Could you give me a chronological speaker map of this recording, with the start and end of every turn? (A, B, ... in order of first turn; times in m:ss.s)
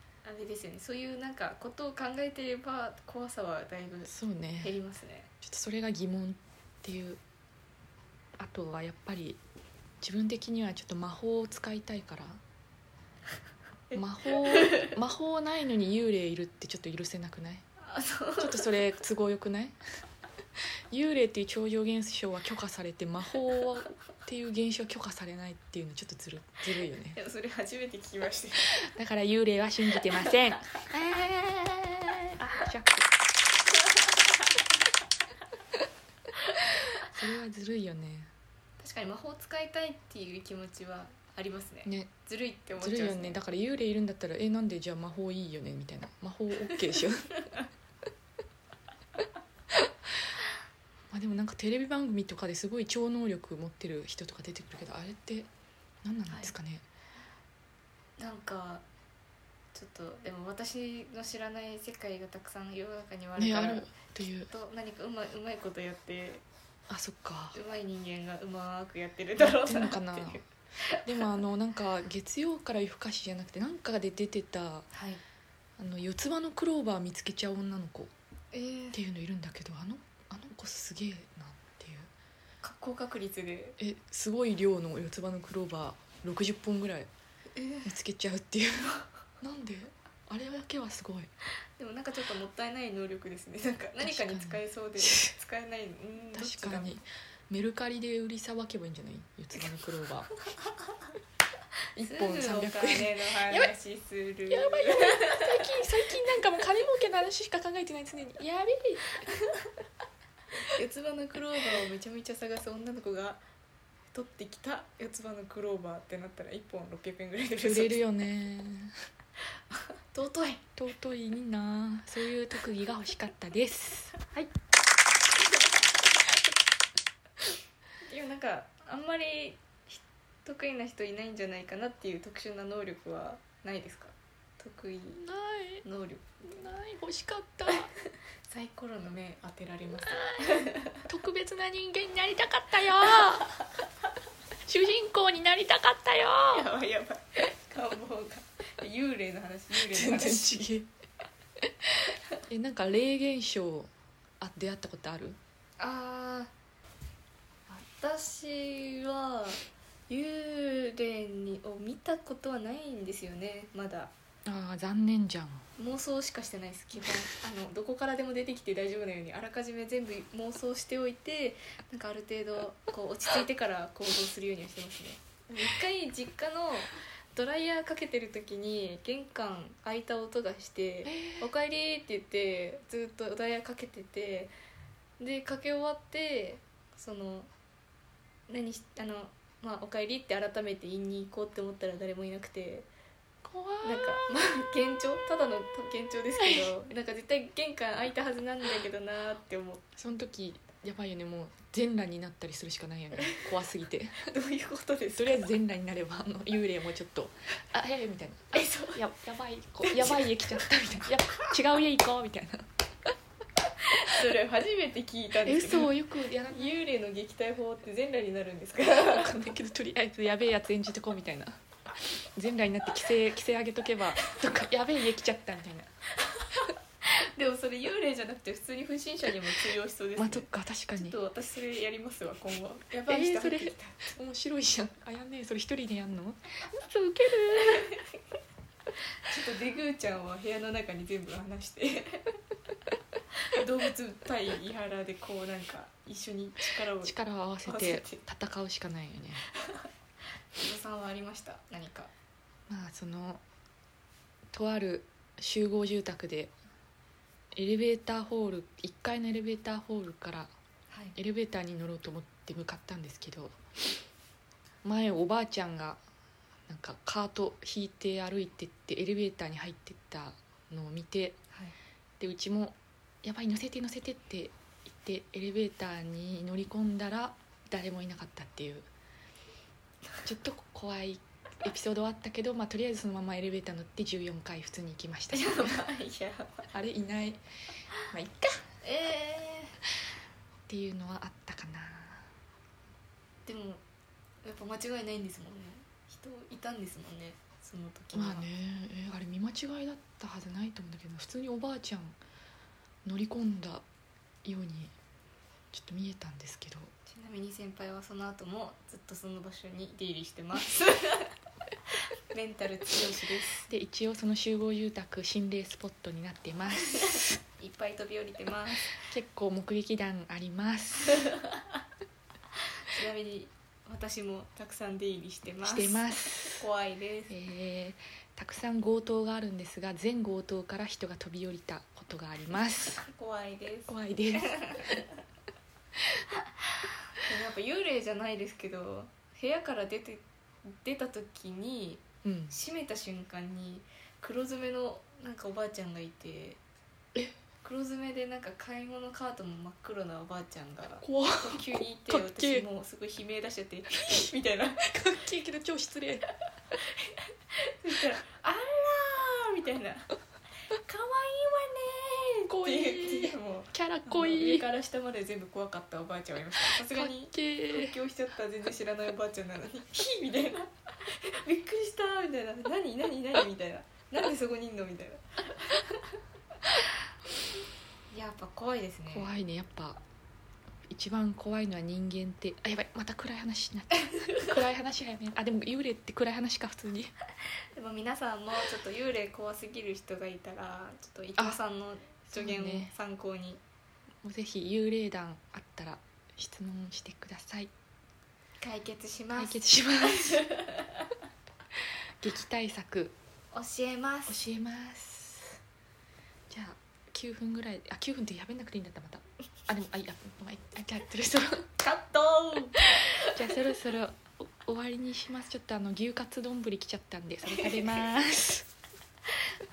0:00.2-0:05.3 A
0:04.1-0:04.8 B
0:05.4-0:07.2 B
0:08.4-0:09.4 B
0:10.0-0:12.4 B
0:13.9-0:14.9 A
0:13.9-0:17.6 B
0:17.8-0:18.7 A
0:18.4-0:19.8 B
0:20.9-0:27.2 B
0:27.2-0:28.8 A
0:28.8-0:33.1 B
0:33.9-0:34.6 A
0:37.1-0:38.3 B
0:38.8-0:43.4 A
0:41.8-0:42.1 B
0:42.8-0:47.3 B
0:51.1-0:55.5 B
0:56.0-0:56.8 B
0:56.3-0:56.5 A
0:58.2-0:58.8 A
0:59.7-1:06.4 A
1:03.4-1:04.5 B
1:06.9-1:07.6 B
1:07.5-1:11.2 A
1:09.4-1:10.4 B
1:11.0-1:14.9 B
1:14.9-1:15.2 A
1:15.8-1:18.1 B
1:18.5-1:19.0 A
1:18.9-1:22.1 B
1:22.6-1:23.8 A
1:23.8-1:27.1 B
1:27.6-1:27.9 A
1:27.8-1:31.3 B
1:31.8-1:37.0 A
1:34.0-1:35.3 B
1:36.3-1:40.3 B
1:42.0-1:43.7 B
1:42.0-1:45.8 A
1:44.5-1:49.2 B
1:50.7-1:53.4 A
1:54.1-1:58.0 A
1:57.6-1:58.9 B
1:59.8-2:00.6 A
2:00.8-2:04.4 B
2:08.1-2:15.2 A
2:15.2-2:15.8 B
2:15.8-2:16.7 A
2:16.5-2:17.9 B
2:18.5-2:21.0 A
2:20.2-2:23.5 B
2:24.7-2:26.7 B
2:26.5-2:30.6 A
2:29.8-2:30.9 B
2:32.5-2:35.4 B
2:35.8-2:36.5 A
2:37.7-2:44.1 A
2:44.5-2:45.6 B
2:45.8-3:04.5 A
3:01.0-3:01.5 B
3:05.2-3:07.5 A
3:08.5-3:12.9 A
3:13.4-3:14.3 B
3:13.8-3:19.8 A
3:20.0-3:24.3 B
3:24.3-3:25.5 A
3:25.2-3:32.7 B
3:28.5-3:29.0 A
3:29.8-3:30.6 A
3:33.9-3:36.0 A
3:35.4-3:36.7 B
3:36.5-3:39.3 A
3:39.0-3:41.6 B
3:42.3-3:45.9 B
3:46.3-3:54.1 A
3:50.2-3:51.2 B
3:53.1-3:58.0 B
3:57.7-3:58.0 A
3:59.2-4:02.3 A
4:03.5-4:08.2 A
4:07.0-4:09.5 B
4:09.6-4:09.9 A
4:10.6-4:12.1 A
4:12.7-4:13.4 B
4:14.5-4:16.5 B
4:17.5-4:20.5 B
4:20.9-4:21.2 A
4:21.2-4:23.6 B
4:24.8-4:26.0 B
4:26.7-4:31.4 B
4:32.2-4:38.9 B
4:40.2-4:45.8 B
4:45.3-4:46.7 A
4:46.7-4:47.4 B
4:48.0-4:48.6 B
4:48.8-4:49.8 A
4:50.7-4:52.3 B
4:53.5-4:53.8 A
4:54.4-4:58.5 A
4:58.1-5:02.2 B
5:03.0-5:03.8 B
5:04.4-5:04.9 B
5:05.7-5:06.9 B
5:07.1-5:11.3 A
5:12.3-5:13.7 A
5:13.7-5:17.3 B
5:16.8-5:19.0 A
5:19.0-5:21.3 B
5:22.9-5:27.3 A
5:25.6-5:26.6 B
5:27.3-5:33.0 B
5:33.0-5:35.0 A
5:33.9-5:35.0 B
5:37.2-5:46.6 A
5:42.2-5:42.5 B
5:47.6-5:55.0 A
5:51.0-5:52.7 B
5:54.8-5:56.3 B
5:56.8-6:00.1 A
6:00.7-6:16.0 A
6:02.5-6:04.7 B
6:06.8-6:08.0 B
6:18.1-6:19.3 A
6:19.1-6:20.0 B
6:20.9-6:27.1 B
6:27.7-6:33.6 A
6:32.3-6:32.9 B
6:34.2-6:37.7 B
6:38.6-6:41.1 A
6:39.4-6:40.4 B
6:42.2-6:43.2 B
6:43.5-6:44.4 A
6:44.3-6:45.6 B
6:46.5-6:51.7 B
6:51.8-6:53.3 A
6:53.3-6:58.7 B
6:57.6-6:58.1 A